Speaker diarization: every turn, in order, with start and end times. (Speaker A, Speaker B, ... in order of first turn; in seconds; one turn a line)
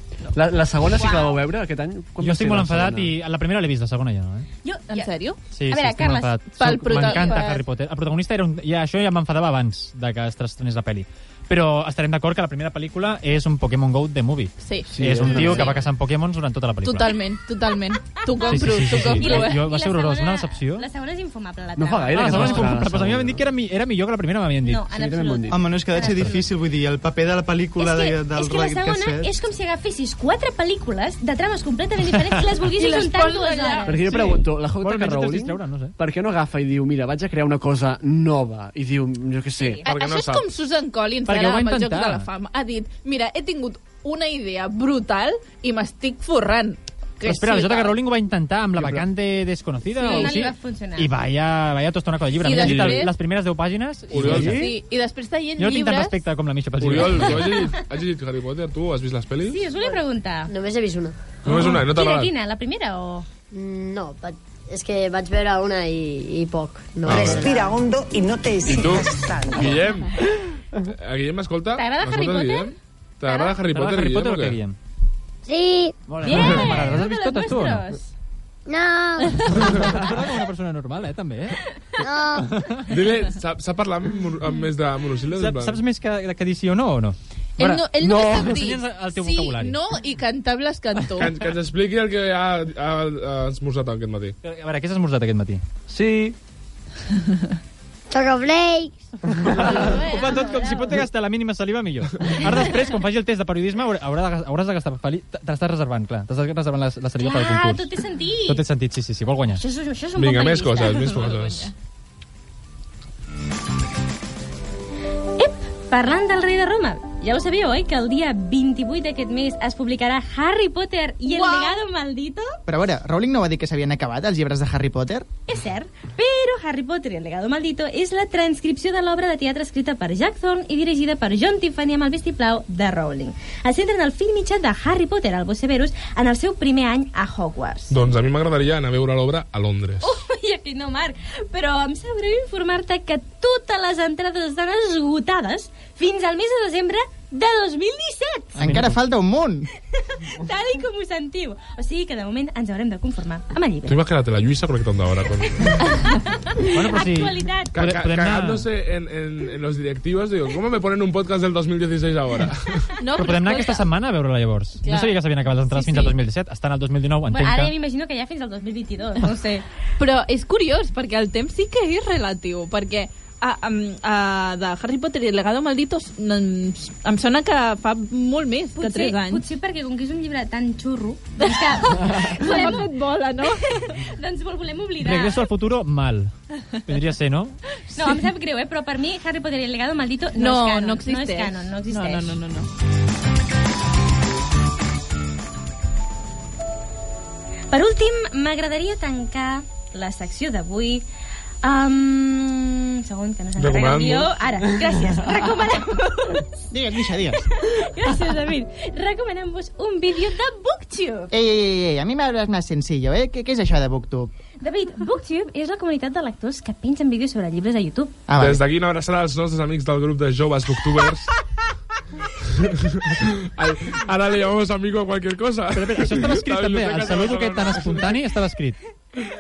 Speaker A: 0.3-3.1
Speaker B: 0.9-1.4
Speaker C: 2.2-4.5
Speaker D: 4.6-5.1
Speaker B: 4.9-5.4
Speaker C: 5.5-17.1
Speaker D: 5.7-6.4
Speaker B: 6.6-7.5
Speaker D: 6.9-7.6
Speaker B: 14.6-15.7
Speaker A: 14.9-15.7
Speaker D: 15.4-15.7
Speaker B: 16.8-19.6
Speaker D: 18.2-22.6
Speaker C: 18.5-20.8
Speaker A: 21.8-23.4
Speaker C: 22.1-24.8
Speaker B: 22.3-22.7
Speaker D: 24.6-26.5
Speaker A: 24.9-25.6
Speaker E: 25.5-29.3
Speaker D: 27.8-34.2
Speaker B: 32.8-34.3
Speaker A: 33.8-39.8
Speaker C: 34.8-35.9
Speaker D: 39.6-39.8
Speaker F: 39.8-40.5
Speaker B: 39.8-47.9
Speaker C: 41.3-42.2
Speaker C: 47.2-54.7
Speaker F: 48.8-49.0
Speaker D: 50.0-51.1
Speaker B: 50.0-50.4
Speaker B: 52.4-53.1
Speaker F: 52.6-53.0
Speaker F: 54.1-54.6
Speaker A: 54.2-54.4
Speaker B: 54.2-56.2
Speaker C: 55.6-57.4
Speaker F: 56.8-59.6
Speaker D: 59.5-60.5
Speaker G: 59.8-61.2
Speaker F: 61.4-62.3
Speaker D: 61.5-63.2
Speaker G: 63.5-67.8
Speaker F: 67.0-67.5
Speaker F: 68.6-70.2
Speaker F: 70.9-74.6
Speaker D: 71.8-72.7
Speaker D: 73.2-73.5
Speaker C: 73.7-74.8
Speaker H: 75.4-75.9
Speaker C: 76.1-77.8
Speaker D: 76.2-78.1
Speaker F: 76.3-76.8
Speaker H: 78.7-80.0
Speaker C: 79.5-81.6
Speaker H: 82.0-82.5
Speaker C: 82.4-82.8
Speaker F: 82.9-85.8
Speaker C: 85.3-89.8
Speaker B: 87.6-91.3
Speaker F: 91.2-94.4
Speaker C: 94.4-96.3
Speaker H: 98.1-98.9
Speaker C: 99.5-107.9
Speaker B: 99.5-101.0
Speaker D: 107.2-108.6
Speaker C: 108.5-109.6
Speaker D: 109.5-111.3
Speaker F: 110.2-111.7
Speaker B: 111.0-111.6
Speaker D: 115.4-122.5
Speaker B: 121.3-121.8
Speaker E: 122.7-125.3
Speaker D: 125.5-138.0
Speaker F: 137.9-140.2
Speaker D: 140.0-148.6
Speaker E: 148.6-149.7
Speaker C: 148.6-148.9
Speaker D: 150.2-154.0
Speaker F: 153.8-155.8
Speaker D: 156.5-157.7
Speaker C: 156.7-158.7
Speaker F: 157.7-162.9
Speaker B: 163.0-163.8
Speaker C: 163.2-167.7
Speaker B: 164.8-165.2
Speaker B: 165.7-166.1
Speaker D: 167.3-169.6
Speaker B: 170.0-179.4
Speaker D: 178.8-182.9
Speaker B: 181.4-183.8
Speaker D: 183.4-185.4
Speaker C: 185.0-186.3
Speaker C: 186.8-187.6
Speaker D: 187.9-192.4
Speaker B: 190.3-192.7
Speaker D: 197.7-201.1
Speaker D: 201.6-206.4
Speaker F: 203.6-204.3
Speaker E: 206.7-207.4
Speaker D: 207.7-211.3
Speaker E: 211.3-214.3
Speaker D: 214.6-218.2
Speaker E: 218.3-218.6
Speaker F: 218.3-221.3
Speaker F: 222.4-228.2
Speaker C: 225.7-228.8